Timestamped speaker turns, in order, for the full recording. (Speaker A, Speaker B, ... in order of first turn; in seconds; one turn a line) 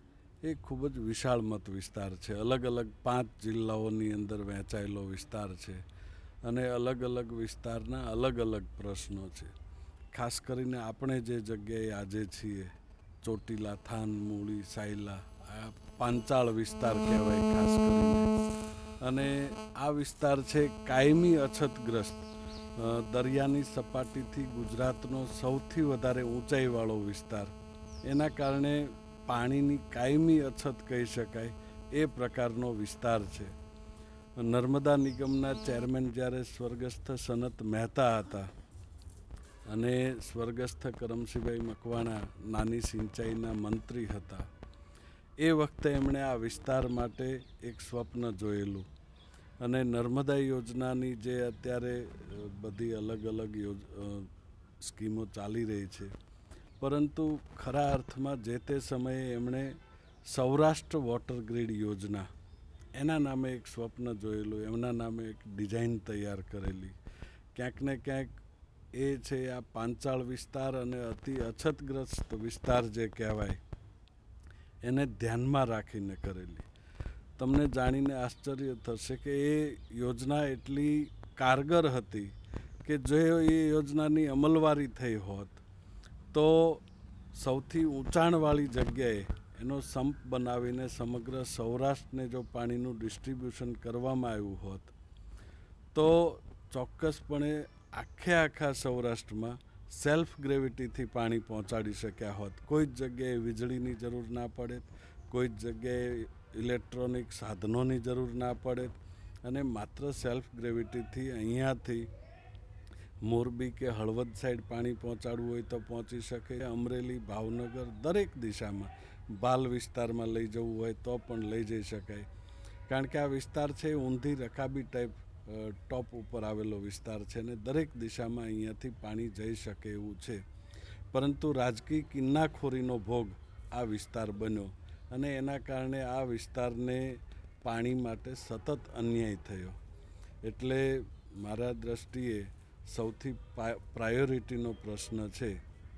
Speaker A: 0.4-5.8
Speaker A: 6.4-9.5
Speaker A: 10.1-18.3
Speaker A: 19.0-22.2
Speaker A: 22.8-27.5
Speaker A: 28.1-33.5
Speaker A: 34.4-38.5
Speaker A: 39.7-44.5
Speaker A: 45.4-48.9
Speaker A: 49.6-56.1
Speaker A: 56.8-59.7
Speaker A: 60.3-62.3
Speaker A: 63.0-67.0
Speaker A: 67.5-68.4
Speaker A: 68.9-73.6
Speaker A: 74.8-76.7
Speaker A: 77.4-85.6
Speaker A: 86.3-94.9
Speaker A: 95.9-112.1
Speaker A: 113.2-122.3
Speaker A: 122.9-130.4
Speaker A: 131.1-139.8
Speaker A: 140.4-145.6